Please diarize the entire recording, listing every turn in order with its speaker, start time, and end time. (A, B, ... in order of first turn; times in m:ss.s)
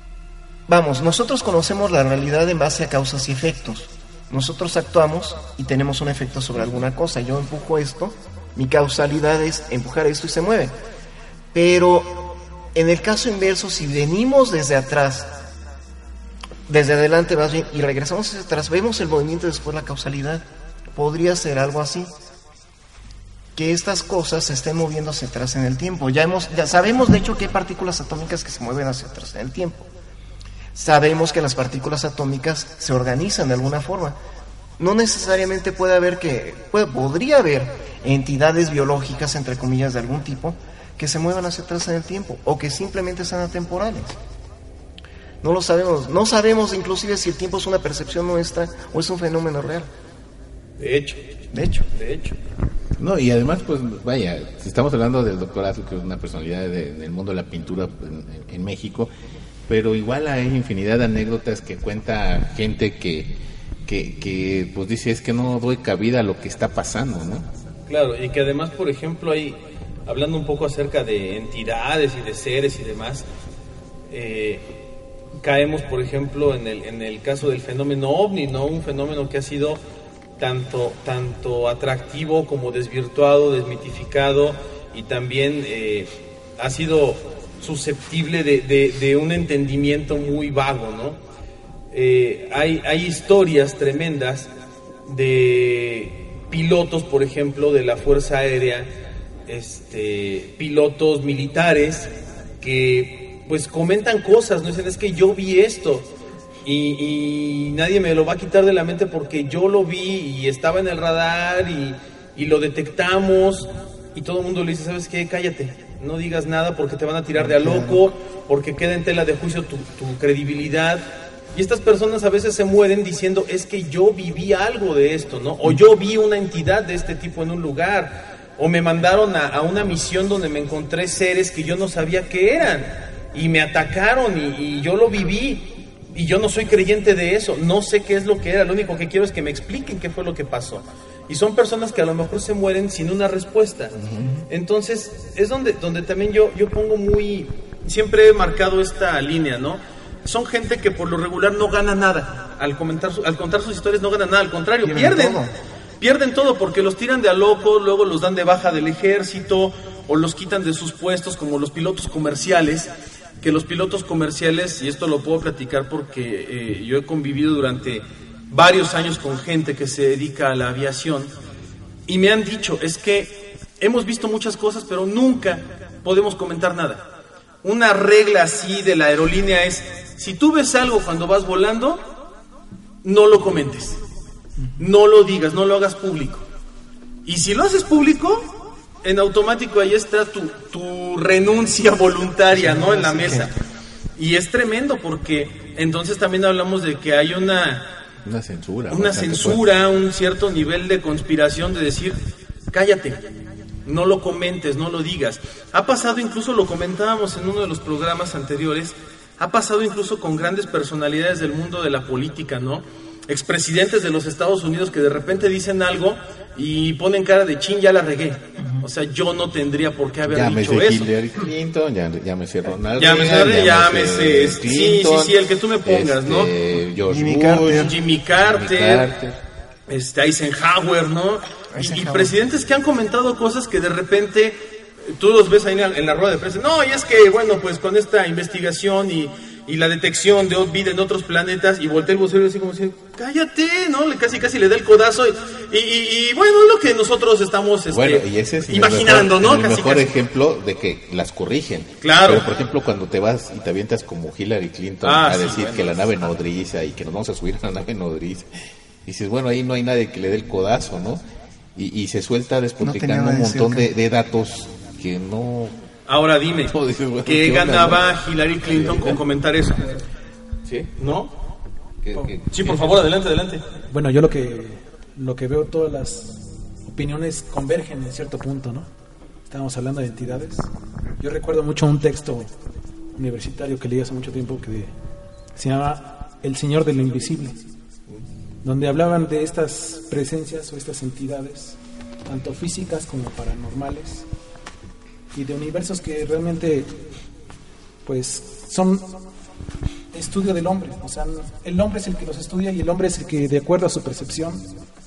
0:00.7-0:10.7 A
0:11.5-0:15.4 A
0:16.7-0:22.1 A
0:23.5-0:29.9 A
0:30.7-0:34.2 A
0:34.8-0:44.2 A
0:45.4-0:49.9 A
0:50.8-0:51.3 B
0:51.5-0:51.9 A
0:51.9-0:52.4 B
0:53.0-0:59.1 C
0:59.7-1:03.3 C
1:03.8-1:07.4 C
1:07.9-1:13.3 B
1:14.1-1:14.6 B
1:15.4-1:19.8 B
1:20.4-1:31.2 B
1:31.9-1:34.5 B
1:35.0-1:38.9 B
1:39.5-1:46.1 B
1:46.6-2:23.9 B
1:57.3-1:58.0 A
2:23.9-2:24.3 C
2:24.5-2:35.4 B
2:34.8-2:35.5 A
2:36.0-2:51.3 B
2:52.1-2:57.0 B
2:57.6-3:02.0 B
3:03.0-3:04.0 B
3:04.8-3:06.4 B
3:07.2-3:13.5 B
3:12.5-3:13.5 A
3:14.2-3:17.8 B
3:18.2-3:19.6 C
3:18.9-3:22.2 B
3:22.7-3:23.3 B
3:23.8-3:41.1 B
3:40.3-3:49.4 C
3:43.0-3:46.5 B
3:47.0-3:48.0 A
3:47.7-3:49.1 B
3:49.9-4:10.1 B
3:51.7-3:52.3 A
4:07.9-4:18.5 C
4:12.0-4:12.5 B
4:15.0-4:16.2 B
4:19.0-4:21.2 C
4:21.8-4:25.8 C
4:22.8-4:23.9 A
4:26.1-4:26.7 B
4:26.7-4:29.2 C
4:27.2-4:29.8 B
4:30.6-4:30.9 C
4:31.0-4:31.3 B
4:32.0-4:32.7 C
4:32.5-4:33.6 B
4:33.9-4:38.9 D
4:39.5-4:40.7 D
4:41.2-4:42.5 D
4:43.2-4:44.9 D
4:45.6-4:47.6 D
4:48.6-4:54.2 D
4:55.3-4:57.0 D
4:58.0-4:59.1 D
5:00.1-5:04.7 D